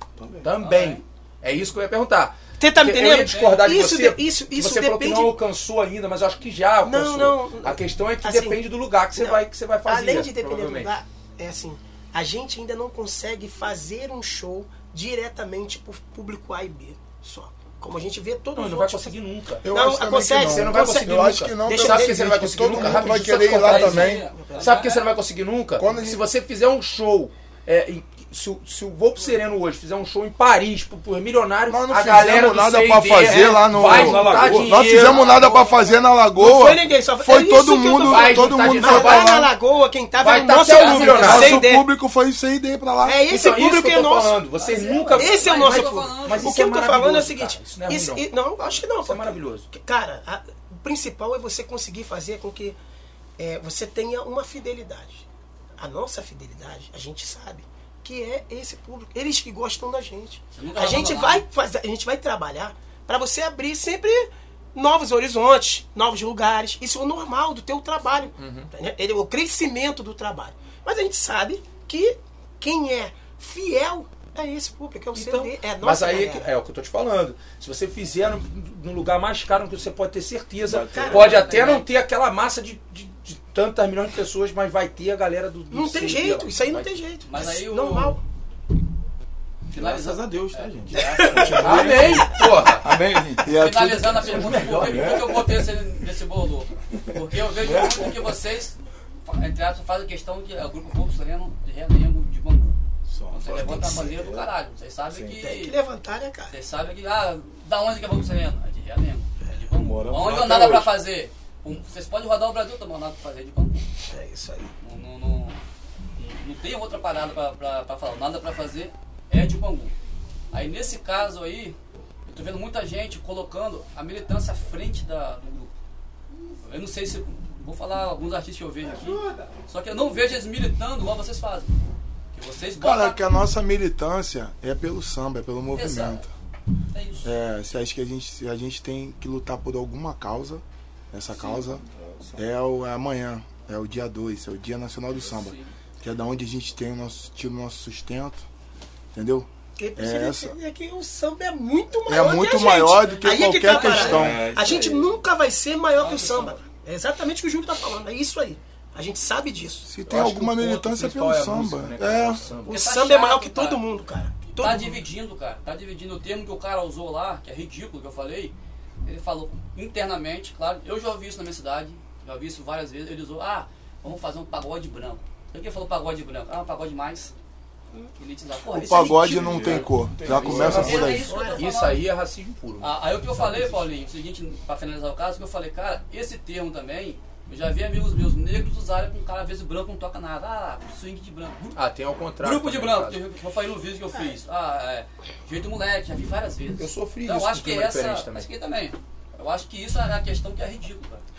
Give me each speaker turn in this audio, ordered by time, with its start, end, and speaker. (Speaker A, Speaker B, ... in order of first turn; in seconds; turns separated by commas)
Speaker A: 0.2-0.5, Speaker B: 0.4-10.9, Speaker C: 0.6-1.0, Speaker D: 2.6-5.4, Speaker D: 6.8-24.9, Speaker B: 18.5-19.7, Speaker E: 19.6-24.3, Speaker B: 20.3-35.2, Speaker C: 23.5-25.1, Speaker E: 25.8-26.2, Speaker E: 31.7-39.5, Speaker A: 33.3-35.2, Speaker C: 35.0-36.0, Speaker D: 36.3-41.9, Speaker B: 38.0-39.5, Speaker B: 40.2-41.7, Speaker C: 40.7-41.5, Speaker E: 41.1-43.2, Speaker D: 43.0-44.5, Speaker B: 43.3-48.3, Speaker C: 44.5-46.5, Speaker D: 45.1-52.8, Speaker B: 49.0-49.7, Speaker D: 53.4-55.2, Speaker D: 55.8-76.5, Speaker C: 60.5-61.5, Speaker B: 68.4-68.7, Speaker B: 75.1-87.0, Speaker A: 80.6-81.6, Speaker D: 80.9-81.2, Speaker C: 81.0-81.9, Speaker D: 85.7-88.2, Speaker C: 87.2-88.2, Speaker C: 89.7-92.1, Speaker A: 89.7-93.6, Speaker D: 91.0-91.8, Speaker B: 91.6-92.9, Speaker E: 93.4-94.6, Speaker C: 93.5-102.8, Speaker B: 94.2-95.2, Speaker A: 94.3-95.6, Speaker A: 97.5-98.3, Speaker A: 103.1-104.5, Speaker C: 103.3-105.8, Speaker A: 105.1-105.4, Speaker D: 105.4-106.5, Speaker C: 106.5-113.8, Speaker A: 109.8-111.0, Speaker D: 114.1-114.7, Speaker C: 114.8-115.6, Speaker C: 116.2-119.9, Speaker C: 120.5-125.7, Speaker C: 126.6-131.7, Speaker C: 132.3-133.2, Speaker E: 132.8-136.3, Speaker C: 135.7-136.3, Speaker C: 136.9-137.3, Speaker E: 137.2-141.8, Speaker A: 141.3-142.4, Speaker E: 142.3-148.4, Speaker C: 145.2-145.7, Speaker E: 149.1-150.6, Speaker D: 149.8-159.9, Speaker E: 152.1-154.5, Speaker C: 153.0-154.2, Speaker A: 153.9-155.2, Speaker C: 156.0-156.6, Speaker E: 159.8-162.4, Speaker B: 160.1-162.8, Speaker D: 162.6-165.0, Speaker C: 162.7-163.8, Speaker C: 164.6-177.3, Speaker C: 178.2-179.9, Speaker E: 178.8-181.3, Speaker A: 179.1-181.1, Speaker B: 180.3-183.7, Speaker C: 180.5-182.0, Speaker D: 180.6-181.7, Speaker C: 182.8-191.8, Speaker B: 191.7-193.2, Speaker C: 192.4-201.2, Speaker D: 194.1-194.4, Speaker B: 196.8-198.5